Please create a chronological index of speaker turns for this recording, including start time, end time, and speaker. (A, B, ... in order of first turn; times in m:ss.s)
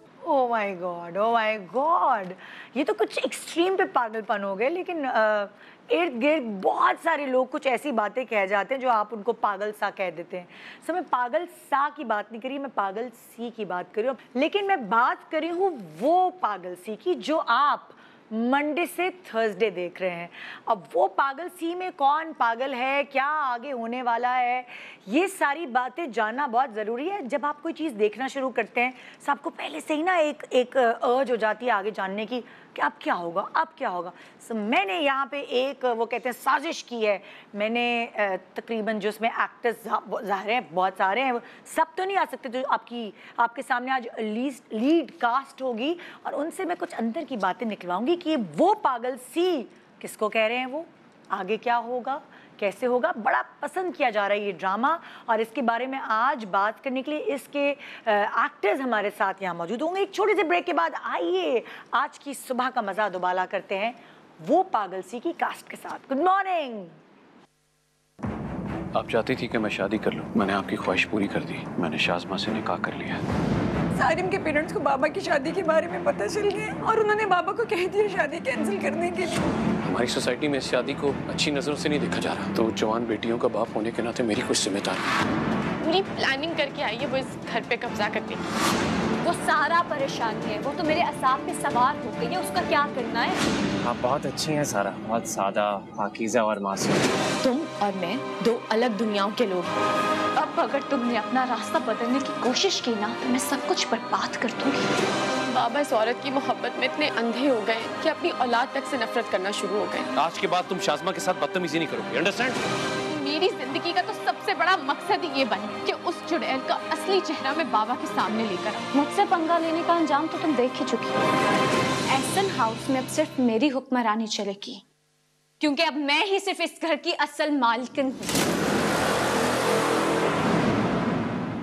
0:00.2-1:07.0 A
1:08.9-1:13.2 B
1:14.0-1:19.4 C
1:19.8-1:25.0 B
1:25.8-1:28.4 D
1:29.2-1:33.4 E
1:33.8-1:37.2 F
1:37.4-1:38.4 E
1:37.6-1:39.7 D
1:40.4-1:45.0 E
1:45.5-1:50.1 D
1:50.2-1:52.6 B
1:53.1-1:58.9 D
1:59.8-2:01.2 E
2:02.1-2:04.8 E
2:05.6-2:08.3 E